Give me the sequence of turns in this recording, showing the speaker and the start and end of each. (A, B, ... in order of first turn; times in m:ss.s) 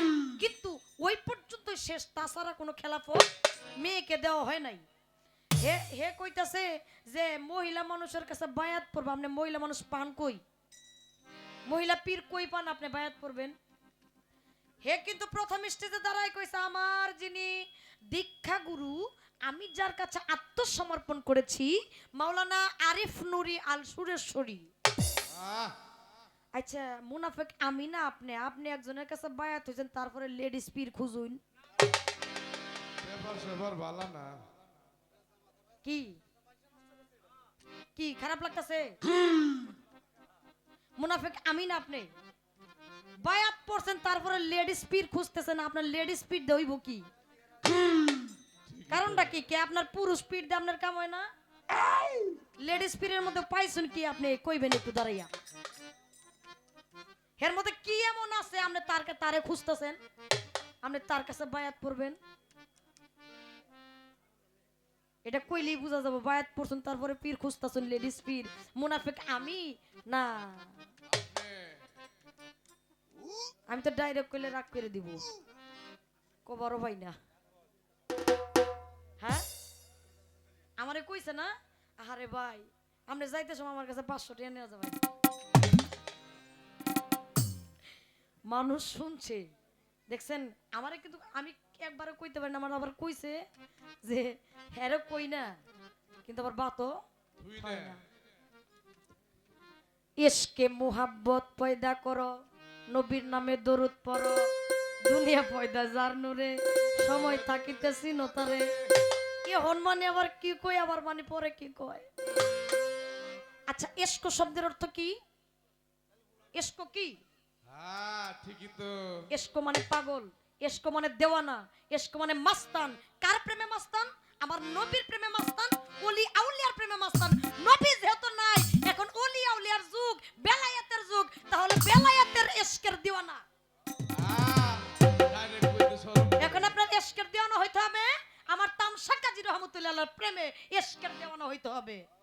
0:00.3-0:04.8 A
0:05.6-0:10.4 A
0:11.7-0:13.5 A
0:14.8-0:17.5 A
0:18.1-0:24.7 A
0:25.3-0:25.7 B
0:26.5-0:31.4 A
0:33.0-0:34.4 B
0:35.8-0:36.2 A
0:38.0-0:39.0 A
0:41.0-0:42.1 A
0:43.2-0:47.1 A
0:48.7-0:49.3 B
0:48.9-0:51.3 A
0:52.6-0:55.3 A
0:57.4-1:00.0 A
1:00.8-1:02.2 A
1:05.2-1:10.8 A
1:11.1-1:11.8 B
1:13.7-1:15.2 A
1:16.4-1:17.2 A
1:19.2-1:19.4 A
1:20.8-1:25.0 A
1:28.5-1:29.5 A
1:30.1-1:33.4 A
1:34.0-1:35.6 A
1:36.2-1:37.0 A
1:37.4-1:38.0 B
1:37.6-1:38.0 A
1:40.2-1:42.3 A
1:42.9-1:44.5 A
1:45.0-1:48.7 A
1:47.1-1:47.6 B
1:49.4-1:52.0 A
1:53.7-1:55.2 A
1:56.5-1:57.2 A
1:57.6-1:59.3 B
1:59.3-2:13.4 A
2:14.1-2:16.7 B
2:16.4-2:22.0 A